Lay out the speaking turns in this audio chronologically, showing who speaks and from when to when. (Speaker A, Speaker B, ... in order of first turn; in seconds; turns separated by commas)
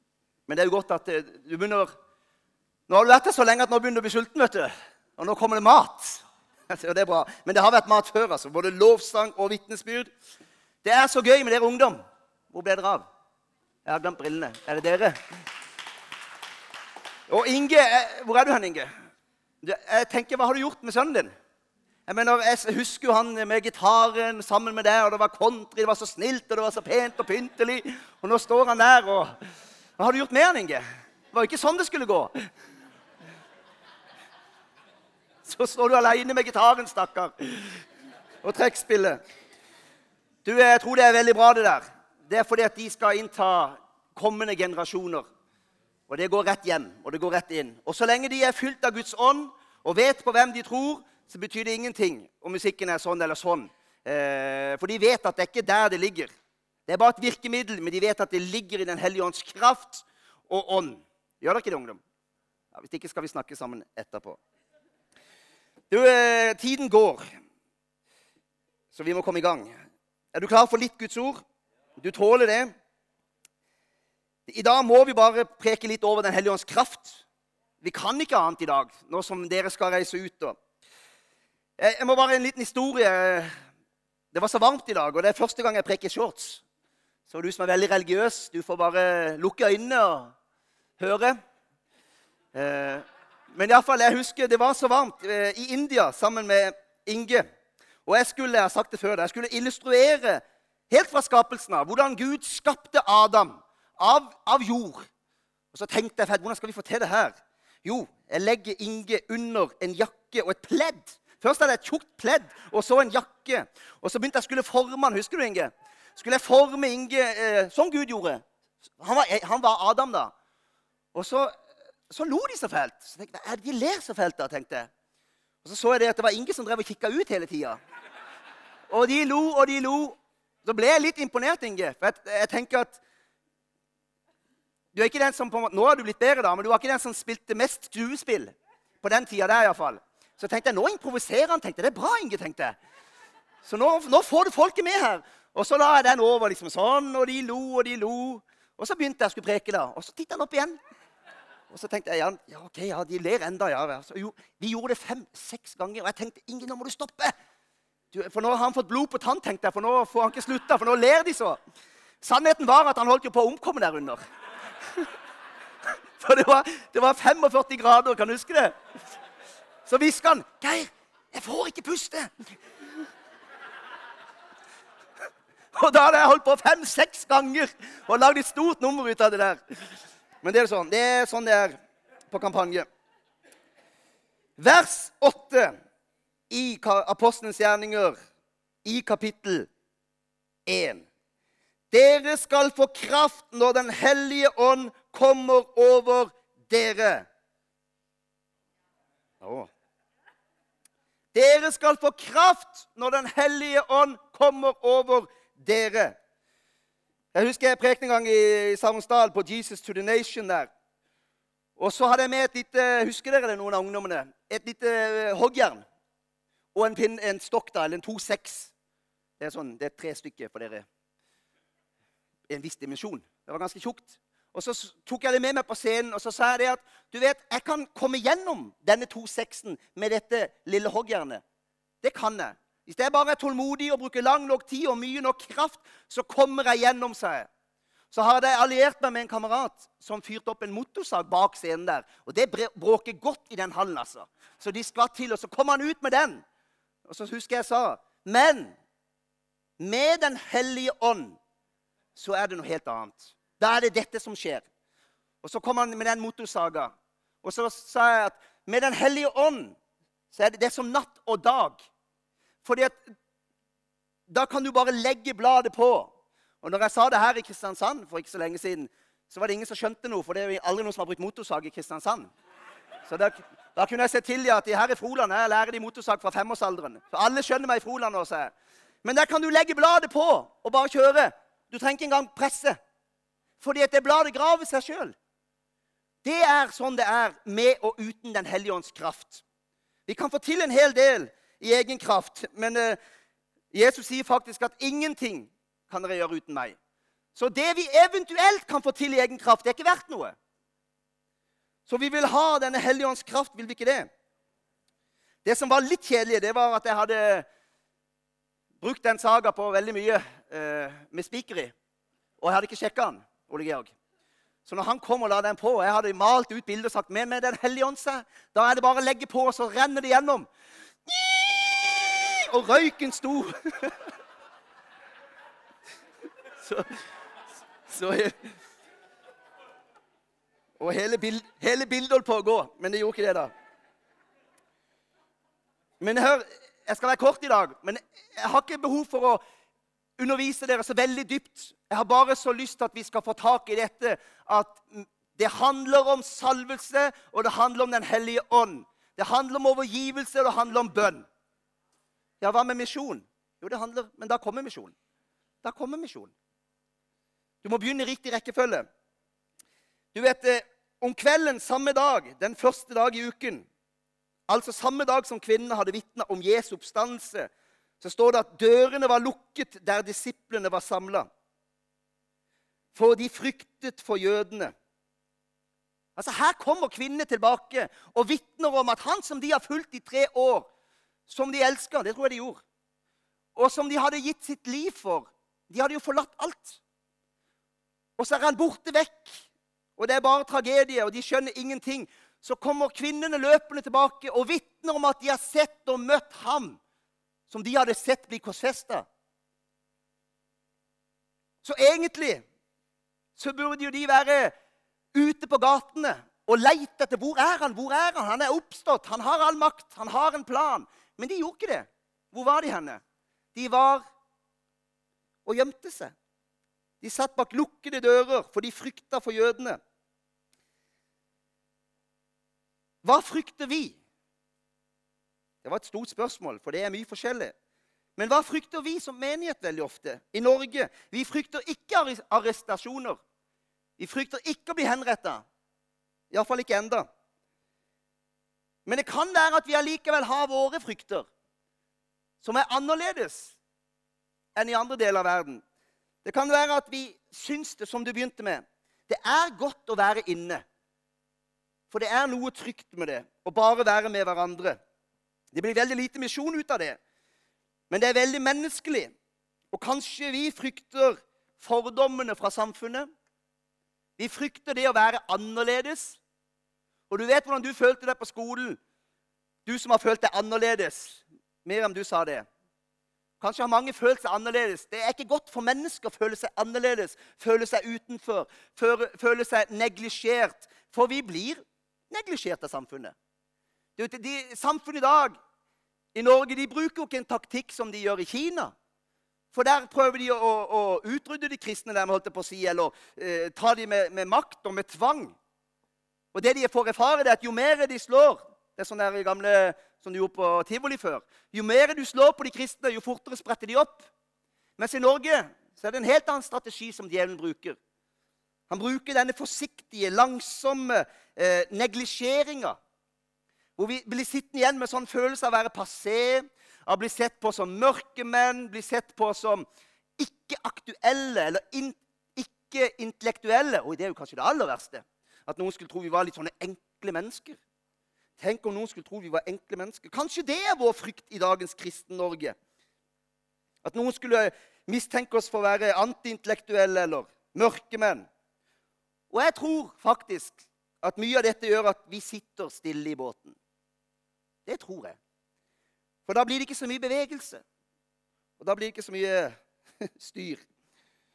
Speaker A: 0.5-1.9, Speaker A: 2.9-10.1, Speaker A: 10.8-13.1, Speaker A: 13.8-15.2, Speaker A: 17.3-18.9, Speaker A: 19.6-21.3, Speaker A: 22.1-29.3, Speaker A: 30.0-32.3, Speaker A: 35.4-37.8, Speaker A: 38.4-39.2, Speaker A: 40.4-45.3, Speaker A: 46.1-56.3, Speaker A: 56.9-62.0, Speaker A: 62.7-64.4, Speaker A: 65.9-67.3, Speaker A: 68.9-69.7, Speaker A: 70.3-71.4, Speaker A: 72.0-72.7, Speaker A: 74.5-77.2, Speaker A: 77.8-80.5, Speaker A: 81.8-83.5, Speaker A: 84.3-86.6, Speaker A: 87.3-90.3, Speaker A: 91.0-91.4, Speaker A: 92.5-97.5, Speaker A: 98.0-105.1, Speaker A: 105.7-118.4, Speaker A: 119.0-120.3, Speaker A: 121.1-121.5, Speaker A: 122.1-124.9, Speaker A: 125.6-127.8, Speaker A: 128.9-133.0, Speaker A: 134.9-142.8, Speaker A: 143.6-150.8, Speaker A: 151.7-157.3, Speaker A: 158.1-161.6, Speaker A: 162.2-164.2, Speaker A: 166.2-168.8, Speaker A: 169.8-172.5, Speaker A: 175.7-179.6, Speaker A: 180.4-181.8, Speaker A: 182.3-182.8, Speaker A: 184.6-185.8, Speaker A: 186.5-188.1, Speaker A: 188.8-189.7, Speaker A: 190.7-191.1, Speaker A: 191.9-197.2, Speaker A: 199.4-199.7, Speaker A: 201.3-206.2, Speaker A: 207.3-210.7, Speaker A: 211.8-215.8, Speaker A: 216.7-218.7, Speaker A: 219.4-220.8, Speaker A: 222.5-231.4, Speaker A: 232.0-237.5, Speaker A: 238.1-246.4, Speaker A: 247.0-248.8, Speaker A: 249.8-251.4, Speaker A: 252.1-254.7, Speaker A: 255.4-259.8, Speaker A: 260.3-261.8, Speaker A: 262.6-263.1, Speaker A: 264.3-272.3, Speaker A: 273.1-278.5, Speaker A: 279.0-282.8, Speaker A: 283.6-285.1, Speaker A: 286.2-289.4, Speaker A: 290.1-293.0, Speaker A: 293.7-296.8, Speaker A: 297.3-300.4, Speaker A: 301.9-304.1, Speaker A: 305.4-307.4, Speaker A: 308.8-311.7, Speaker A: 312.4-313.9, Speaker A: 314.6-320.5, Speaker A: 321.1-323.9, Speaker A: 326.6-327.0, Speaker A: 327.9-328.5, Speaker A: 330.8-333.5, Speaker A: 336.0-339.4, Speaker A: 340.2-351.2, Speaker A: 352.4-354.9, Speaker A: 355.6-356.3, Speaker A: 357.6-358.9, Speaker A: 360.1-363.6, Speaker A: 364.5-371.3, Speaker A: 372.9-374.7, Speaker A: 376.1-380.7, Speaker A: 381.3-382.6, Speaker A: 383.5-386.8, Speaker A: 388.2-389.4, Speaker A: 390.0-396.8, Speaker A: 397.5-399.1, Speaker A: 401.6-402.4, Speaker A: 403.4-404.5, Speaker A: 405.1-413.0, Speaker A: 413.5-414.1, Speaker A: 415.4-416.1, Speaker A: 417.0-419.8, Speaker A: 423.0-424.0, Speaker A: 425.6-427.5, Speaker A: 428.2-433.2, Speaker A: 434.0-435.4, Speaker A: 436.3-437.1, Speaker A: 438.9-441.3, Speaker A: 442.4-443.5, Speaker A: 444.5-445.6, Speaker A: 446.2-450.6, Speaker A: 451.9-454.8, Speaker A: 455.5-457.0, Speaker A: 457.9-459.1, Speaker A: 459.7-463.1, Speaker A: 464.2-466.2, Speaker A: 467.1-468.8, Speaker A: 469.6-472.4, Speaker A: 473.4-483.1, Speaker A: 484.0-485.3, Speaker A: 486.1-488.7, Speaker A: 489.5-495.3, Speaker A: 496.3-504.1, Speaker A: 504.8-507.8, Speaker A: 508.7-512.8, Speaker A: 513.8-519.6, Speaker A: 520.2-527.6, Speaker A: 528.4-532.5, Speaker A: 533.8-538.2, Speaker A: 539.3-543.5, Speaker A: 544.6-545.2, Speaker A: 546.2-547.6, Speaker A: 548.6-550.6